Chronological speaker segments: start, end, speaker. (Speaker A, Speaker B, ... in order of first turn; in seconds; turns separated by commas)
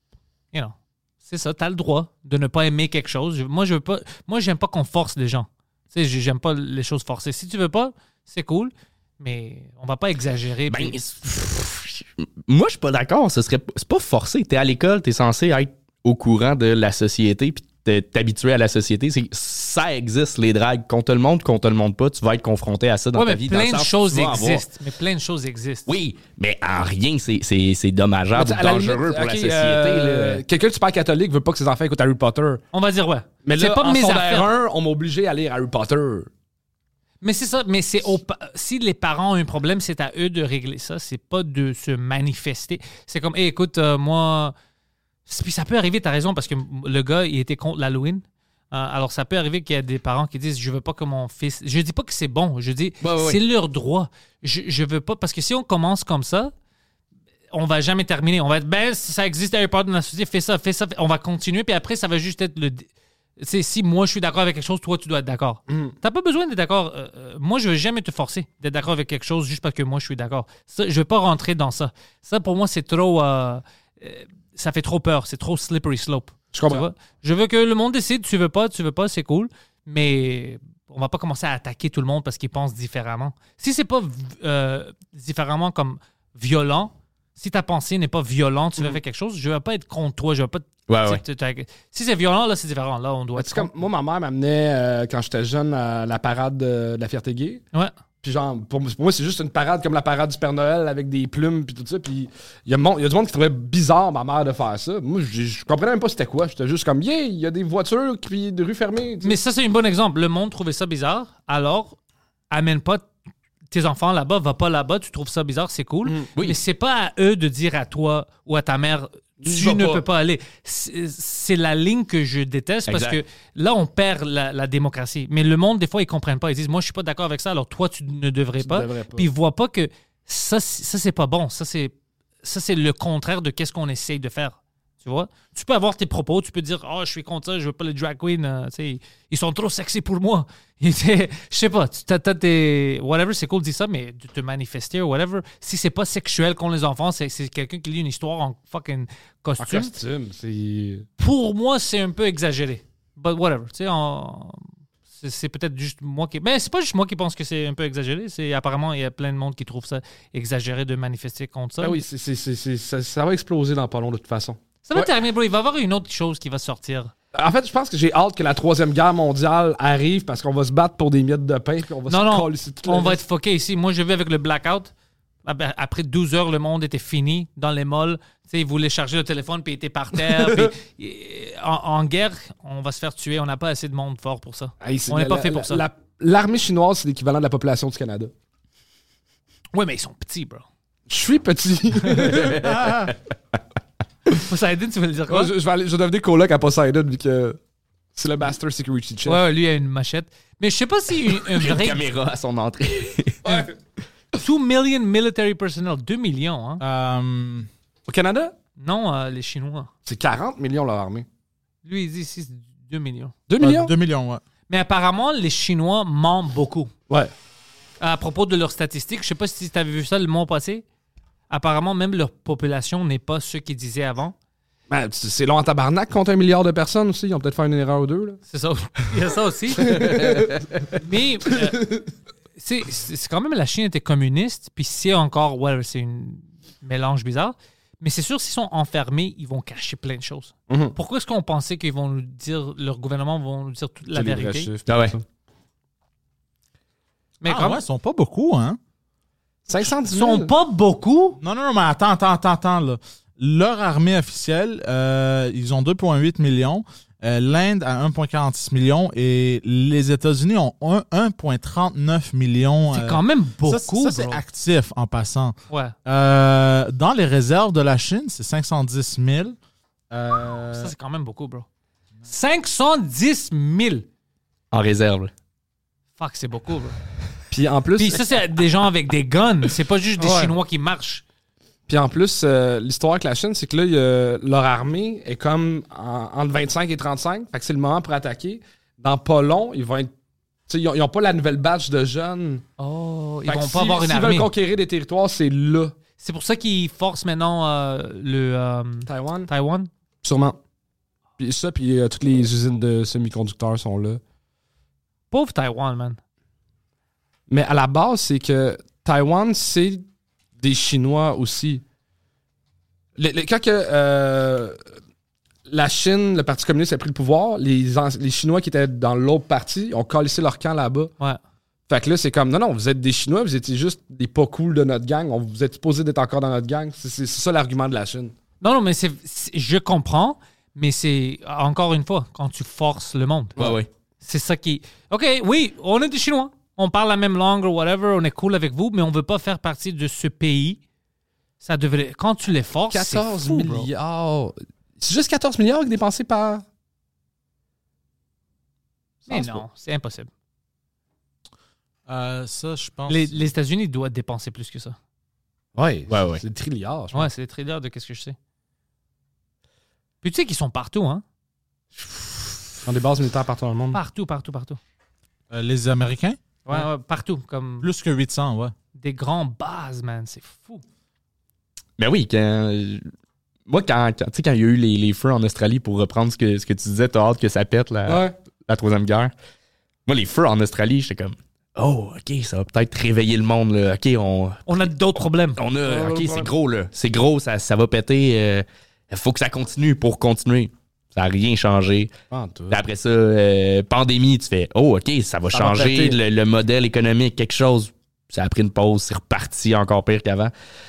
Speaker A: 0.5-11.0, Speaker B: 10.7-24.6, Speaker A: 23.1-25.9, Speaker B: 25.9-30.4, Speaker C: 28.3-32.6, Speaker A: 32.7-34.5, Speaker C: 33.4-36.3, Speaker A: 37.2-44.5, Speaker A: 45.3-56.5, Speaker B: 53.0-53.4, Speaker A: 57.5-93.7, Speaker C: 65.7-65.9, Speaker C: 76.5-76.9, Speaker B: 90.9-91.2, Speaker C: 93.4-97.6, Speaker C: 98.2-109.3, Speaker A: 109.2-112.0, Speaker A: 112.5-113.1, Speaker A: 113.7-149.9, Speaker C: 116.0-116.3, Speaker C: 119.4-120.0, Speaker B: 122.9-123.2, Speaker C: 128.6-129.3, Speaker C: 149.6-151.1, Speaker A: 151.2-162.0, Speaker C: 161.8-165.1, Speaker A: 164.8-167.1, Speaker C: 167.3-173.2, Speaker A: 172.1-174.9, Speaker A: 175.4-185.8, Speaker C: 180.2-180.7, Speaker C: 184.8-188.3, Speaker A: 189.7-190.6, Speaker C: 191.1-192.9, Speaker B: 192.3-193.1, Speaker A: 194.3-195.5, Speaker C: 195.3-197.6, Speaker C: 198.1-199.4, Speaker A: 199.2-202.0, Speaker B: 201.5-203.6, Speaker C: 203.4-203.7, Speaker A: 204.3-206.8, Speaker D: 206.8-207.7, Speaker C: 208.1-208.5, Speaker A: 208.8-209.9, Speaker C: 210.0-211.2, Speaker A: 211.8-213.3, Speaker C: 213.5-213.9, Speaker D: 213.6-214.4, Speaker A: 214.7-216.9, Speaker A: 218.0-220.8, Speaker A: 221.5-224.3, Speaker C: 224.9-228.4, Speaker A: 228.5-230.4, Speaker C: 229.8-230.6, Speaker A: 230.9-231.9, Speaker C: 231.7-232.0, Speaker A: 232.6-244.7, Speaker C: 240.7-240.9, Speaker C: 244.1-245.2, Speaker B: 244.9-245.2, Speaker A: 247.4-247.8, Speaker D: 247.5-248.8, Speaker C: 249.7-250.5, Speaker A: 249.8-251.4, Speaker D: 251.4-269.6, Speaker A: 262.9-264.4, Speaker A: 265.7-265.9, Speaker D: 270.1-270.9, Speaker A: 270.7-271.6, Speaker A: 272.2-274.1, Speaker B: 274.7-275.3, Speaker A: 276.2-276.9, Speaker C: 277.5-278.2, Speaker A: 278.0-281.2, Speaker C: 280.2-280.5, Speaker C: 281.9-290.1, Speaker C: 290.7-292.6, Speaker A: 292.8-294.5, Speaker C: 293.5-295.9, Speaker A: 296.2-299.9, Speaker C: 299.1-299.5, Speaker C: 300.2-300.6, Speaker C: 301.4-304.2, Speaker A: 305.3-306.2, Speaker C: 307.5-310.0, Speaker C: 310.6-311.8, Speaker C: 313.2-314.8, Speaker C: 315.7-321.1, Speaker C: 321.9-328.3, Speaker A: 328.6-333.6, Speaker B: 333.6-333.9, Speaker A: 334.2-340.8, Speaker A: 341.6-343.9, Speaker C: 342.9-346.6, Speaker C: 349.2-349.6, Speaker A: 349.3-350.3, Speaker D: 352.1-353.4, Speaker A: 353.1-355.0, Speaker C: 355.7-357.3, Speaker B: 356.1-356.4, Speaker A: 357.1-358.4, Speaker A: 360.2-361.2, Speaker C: 362.8-364.0, Speaker A: 363.9-364.8, Speaker D: 365.5-366.4, Speaker A: 366.7-367.9, Speaker D: 367.8-368.7, Speaker A: 369.0-370.8, Speaker B: 372.0-373.1, Speaker B: 373.7-379.3, Speaker C: 378.1-378.3, Speaker B: 380.1-384.9, Speaker A: 384.7-385.6, Speaker B: 385.6-392.1, Speaker C: 385.8-386.5, Speaker C: 392.3-392.8, Speaker B: 392.7-400.5, Speaker C: 395.5-396.2